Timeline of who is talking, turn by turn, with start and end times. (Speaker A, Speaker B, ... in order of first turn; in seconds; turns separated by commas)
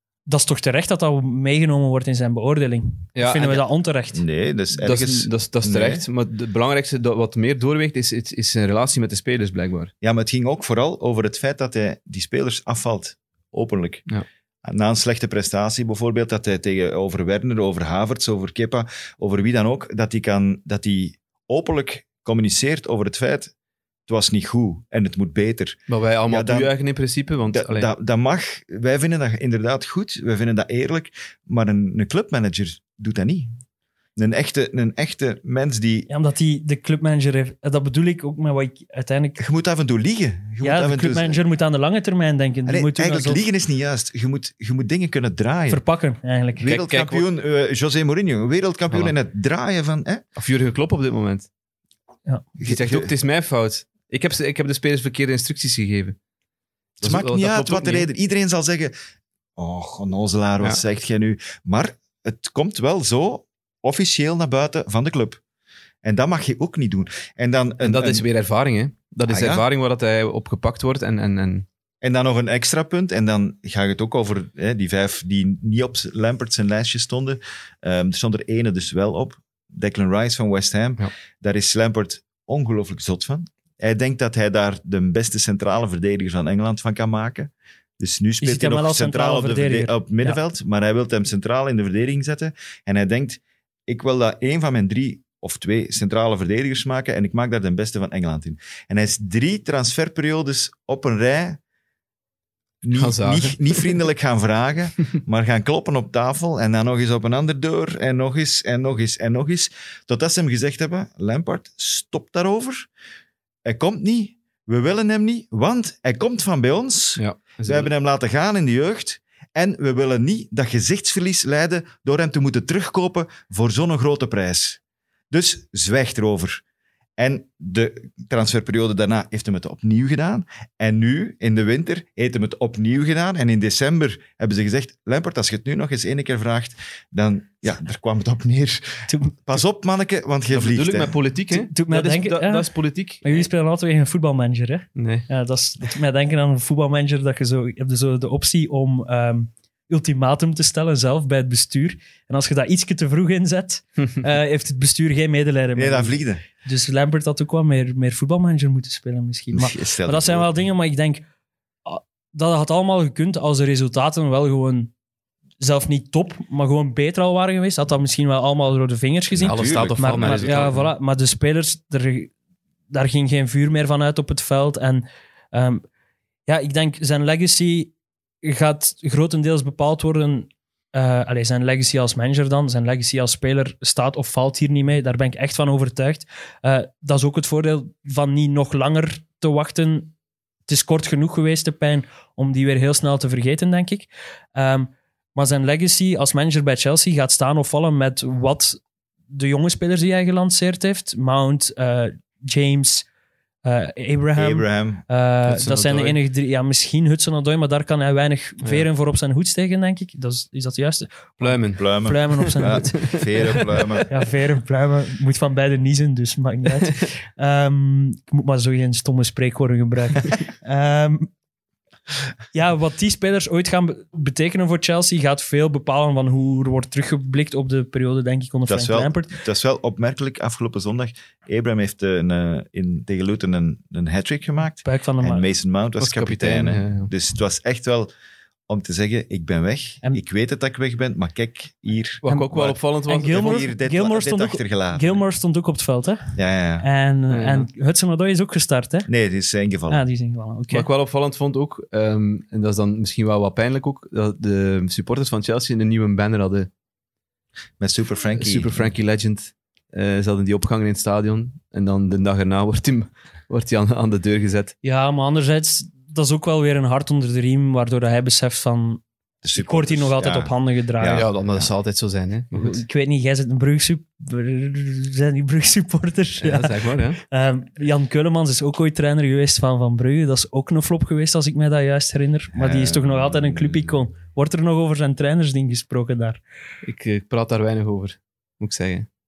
Speaker A: 0.3-4.2, Speaker B: 3.1-3.6, Speaker C: 4.1-6.0, Speaker B: 4.8-9.9, Speaker C: 10.0-14.0, Speaker C: 14.6-23.5, Speaker C: 24.1-26.7, Speaker B: 25.9-27.9, Speaker C: 27.5-33.5, Speaker C: 34.1-36.1, Speaker A: 36.1-39.4, Speaker C: 39.4-41.4, Speaker A: 40.6-43.4, Speaker C: 42.7-45.8, Speaker A: 45.7-46.7, Speaker C: 46.6-50.2, Speaker B: 46.6-47.2, Speaker B: 48.9-49.1, Speaker B: 50.4-51.5, Speaker C: 52.6-53.1, Speaker B: 52.6-56.1, Speaker B: 57.0-58.1, Speaker C: 57.0-58.9, Speaker C: 59.5-65.4, Speaker C: 66.0-68.2, Speaker B: 67.8-71.7, Speaker C: 69.3-69.6, Speaker C: 72.0-101.6, Speaker A: 88.4-90.4, Speaker C: 102.8-112.9, Speaker B: 102.9-103.9, Speaker C: 113.6-124.8, Speaker B: 117.2-117.9, Speaker C: 125.3-126.6, Speaker C: 127.2-141.2, Speaker A: 139.1-139.4, Speaker B: 140.5-143.5, Speaker A: 141.5-161.2, Speaker B: 144.9-145.3, Speaker C: 155.8-156.4, Speaker C: 159.5-160.5, Speaker A: 161.8-164.9, Speaker A: 165.6-172.3, Speaker C: 169.3-170.7, Speaker B: 169.4-170.9, Speaker A: 172.9-175.8, Speaker A: 176.5-190.1, Speaker A: 190.7-198.8, Speaker A: 199.3-203.1, Speaker A: 203.6-213.2, Speaker C: 204.3-205.0, Speaker B: 205.4-206.2, Speaker B: 211.4-214.0, Speaker C: 211.8-214.1, Speaker A: 214.1-221.3, Speaker A: 222.5-229.3, Speaker C: 228.7-238.1, Speaker A: 234.8-235.4, Speaker B: 236.0-237.1, Speaker C: 238.7-245.2, Speaker B: 242.2-243.5, Speaker A: 243.1-249.1, Speaker C: 246.3-246.9, Speaker B: 247.3-247.7, Speaker C: 249.1-250.0, Speaker A: 249.9-250.9, Speaker B: 250.7-256.7, Speaker C: 257.8-258.9, Speaker B: 258.4-264.7, Speaker A: 264.8-269.0, Speaker C: 269.4-271.7, Speaker A: 269.5-271.2, Speaker B: 271.1-272.8, Speaker A: 272.5-286.4, Speaker B: 276.4-277.2, Speaker C: 282.6-283.9, Speaker B: 286.8-289.1